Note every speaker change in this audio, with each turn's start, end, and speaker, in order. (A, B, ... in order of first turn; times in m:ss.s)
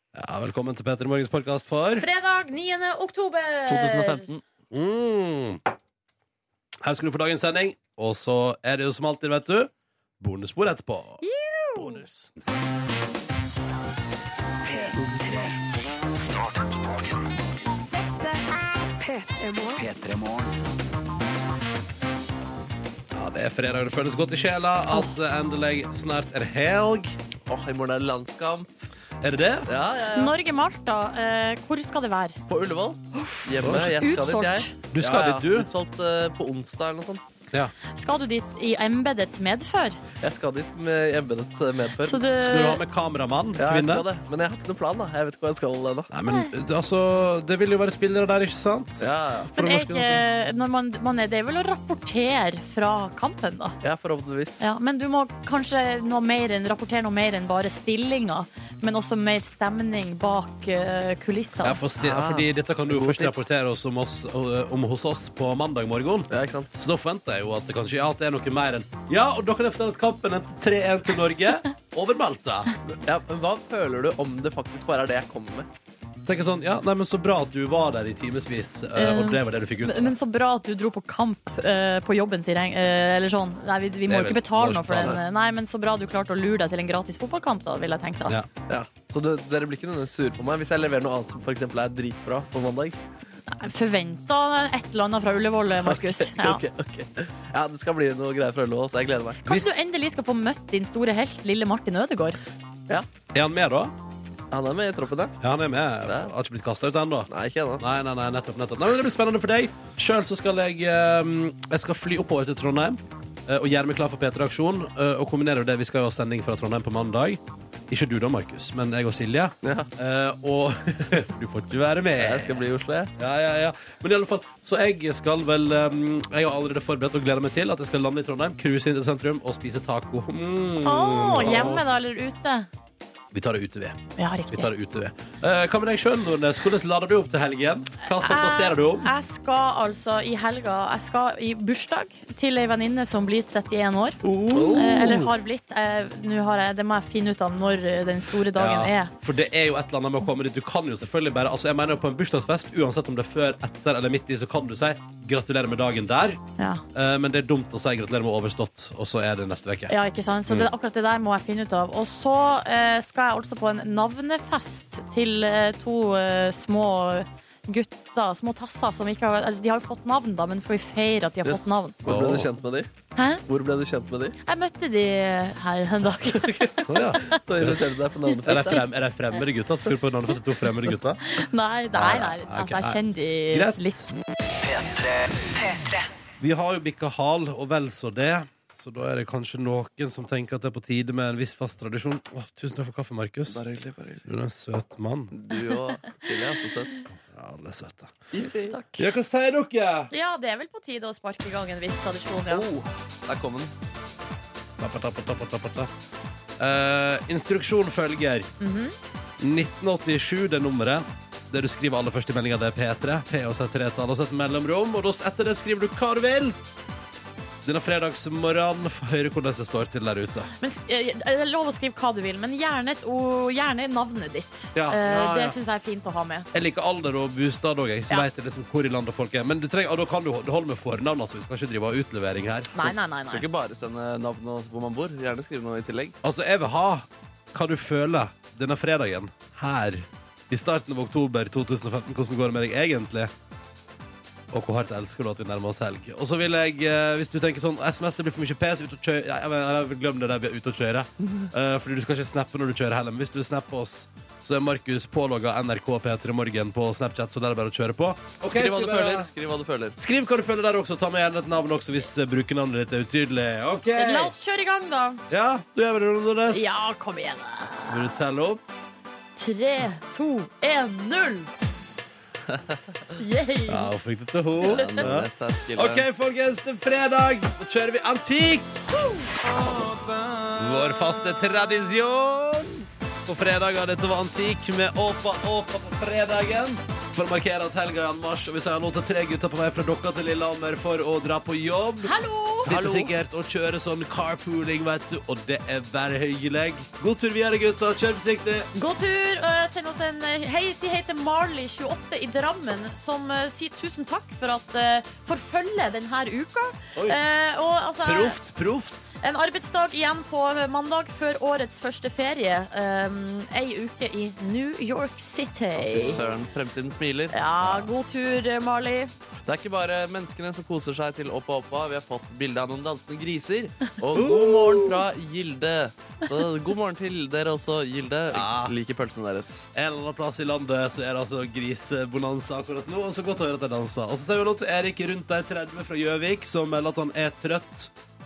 0:00.1-0:02.0 A
0:02.0-0:04.2 B
0:03.7-0:04.4 C
0:04.7-0:05.6 A
0:06.8-0:11.2 A
0:11.2-0:12.0 B
0:11.7-0:12.3 A
0:14.6-0:15.5 D
0:16.1-0:17.2 D
0:17.9-0:19.8 E
0:19.8-0:20.5 D
0:23.1-0:27.2 A
0:27.5-0:28.9 C
0:29.2-0:29.7 A
0:29.7-0:30.3 C
0:30.1-0:32.4 B
0:32.5-0:37.2 C
0:33.1-0:34.7 B
0:33.6-0:34.0 A
0:34.9-0:35.7 A
0:37.9-0:40.0 B
0:40.2-0:42.2 C
0:42.0-0:42.8 B
0:42.4-0:44.0 A
0:43.6-0:46.1 C
0:46.1-0:50.2 A
0:49.0-0:49.8 C
0:49.6-0:53.8 B
0:53.8-0:54.7 C
0:54.6-1:01.8 B
1:01.6-1:12.7 A
1:02.0-1:03.5 C
1:06.3-1:06.8 C
1:12.9-1:15.7 C
1:16.2-1:20.1 A
1:18.9-1:28.4 B
1:24.1-1:25.2 A
1:28.7-1:33.0 C
1:33.5-1:36.6 B
1:35.8-1:39.4 C
1:39.4-1:42.4 B
1:39.5-1:39.8 A
1:43.3-1:43.9 A
1:44.5-1:45.4 C
1:45.4-2:02.6 A
1:46.0-1:46.3 C
1:47.3-1:47.8 C
1:59.6-1:59.9 C
2:02.2-2:03.1 C
2:03.2-2:11.8 A
2:10.8-2:12.7 B
2:13.3-2:19.1 A
2:14.2-2:14.7 B
2:18.1-2:24.2 B
2:24.2-2:25.3 A
2:24.5-2:25.1 C
2:24.7-2:29.1 B
2:28.5-2:36.4 A
2:36.6-2:36.8 B
2:36.9-2:39.9 A
2:39.9-2:52.0 B
2:51.4-2:52.9 C
2:52.0-2:52.5 A
2:53.2-2:53.4 B
2:53.5-2:54.4 C
2:54.4-2:57.4 B
2:56.3-2:56.8 C
2:56.8-3:01.2 A
2:57.3-2:58.8 C
3:01.2-3:04.0 B
3:01.9-3:04.1 A
3:04.6-3:06.0 D
3:06.4-3:13.6 A
3:13.5-3:14.2 C
3:14.2-3:15.3 A
3:15.3-3:17.0 C
3:17.2-3:18.3 A
3:18.3-3:19.1 B
3:18.3-3:18.7 C
3:19.0-3:20.1 A
3:20.1-3:22.6 B
3:22.5-3:23.7 C
3:24.8-3:25.9 A
3:26.6-3:28.5 A
3:28.6-3:28.9 B
3:29.4-3:36.6 A
3:37.6-3:40.5 A
3:40.6-3:46.5 B
3:44.7-3:45.0 A
3:45.0-3:45.6 C
3:46.5-3:52.7 A
3:52.7-3:53.4 B
3:53.3-3:56.1 C
3:56.2-4:03.3 A
4:04.5-4:19.3 A
4:18.4-4:20.0 C
4:20.0-4:24.3 A
4:24.0-4:25.2 B
4:25.3-4:26.8 A
4:26.5-4:28.2 B
4:27.9-4:28.6 A
4:29.4-4:31.5 B
4:33.2-4:33.9 B
4:33.7-4:38.8 A
4:34.6-4:35.0 B
4:34.6-4:36.0 C
4:38.9-4:39.2 B
4:40.5-4:58.7 A
4:52.0-4:52.7 B
4:52.6-4:53.1 C
4:58.7-5:08.4 B
5:08.0-5:09.1 A
5:09.2-5:16.2 B
5:15.8-5:17.3 C
5:15.9-5:16.2 A
5:17.3-5:19.1 B
5:17.6-5:17.9 A
5:19.4-5:29.7 C
5:24.1-5:24.9 A
5:28.3-5:28.8 A
5:29.7-5:37.9 A